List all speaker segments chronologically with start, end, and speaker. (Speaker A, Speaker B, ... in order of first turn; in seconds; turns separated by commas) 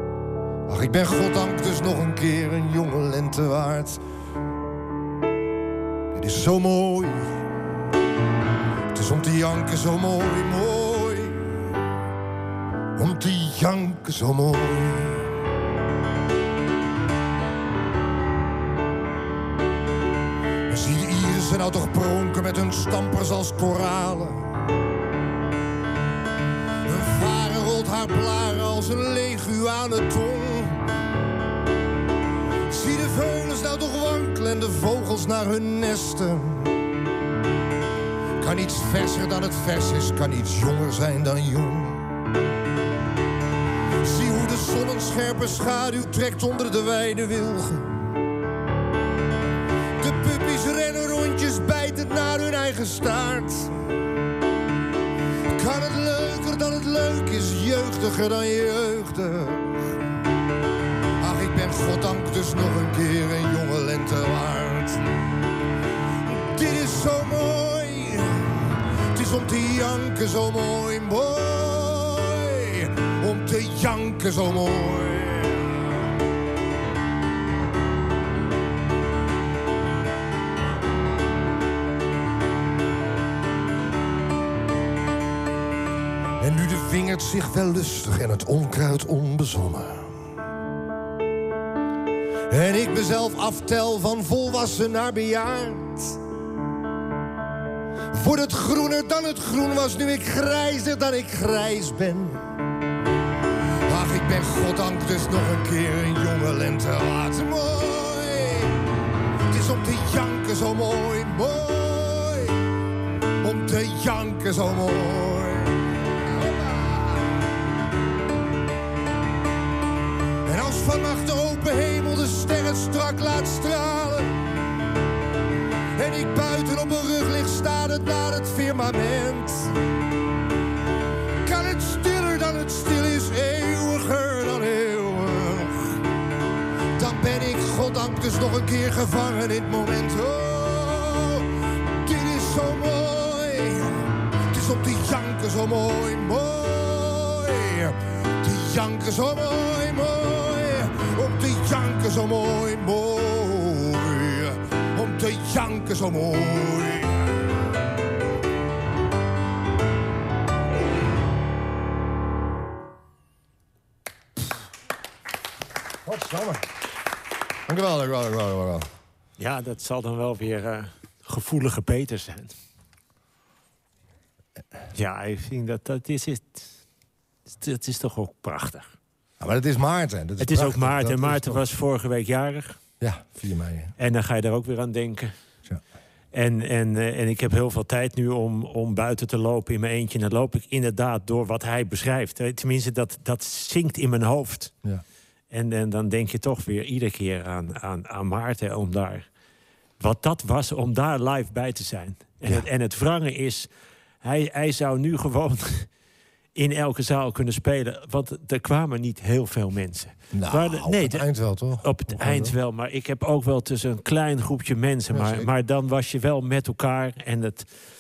Speaker A: 0.7-4.0, Speaker A: 6.1-7.5, Speaker A: 8.9-11.7, Speaker A: 12.9-15.3, Speaker A: 20.7-24.6, Speaker A: 26.9-30.9, Speaker A: 32.7-36.8, Speaker A: 38.4-42.1, Speaker A: 44.0-48.2, Speaker A: 50.0-53.9, Speaker A: 55.5-60.0, Speaker A: 61.2-65.0, Speaker A: 66.3-76.1, Speaker A: 86.4-90.2, Speaker A: 92.5-96.2, Speaker A: 98.1-102.5, Speaker A: 103.9-108.9, Speaker A: 109.4-112.6, Speaker A: 113.4-117.4, Speaker A: 120.4-124.4, Speaker A: 126.0-129.8, Speaker A: 131.4-136.0, Speaker A: 137.0-157.3, Speaker A: 166.0-166.7, Speaker A: 167.7-168.9, Speaker B: 169.4-172.5, Speaker B: 174.9-176.7, Speaker B: 177.6-178.9, Speaker A: 179.4-181.6, Speaker B: 180.4-182.8, Speaker A: 183.0-183.9, Speaker B: 184.0-185.3, Speaker B: 186.3-194.7, Speaker B: 195.5-199.2, Speaker B: 200.0-203.7, Speaker B: 204.2-205.9, Speaker B: 206.6-211.3, Speaker A: 210.3-212.6, Speaker B: 211.8-217.7, Speaker A: 215.1-215.5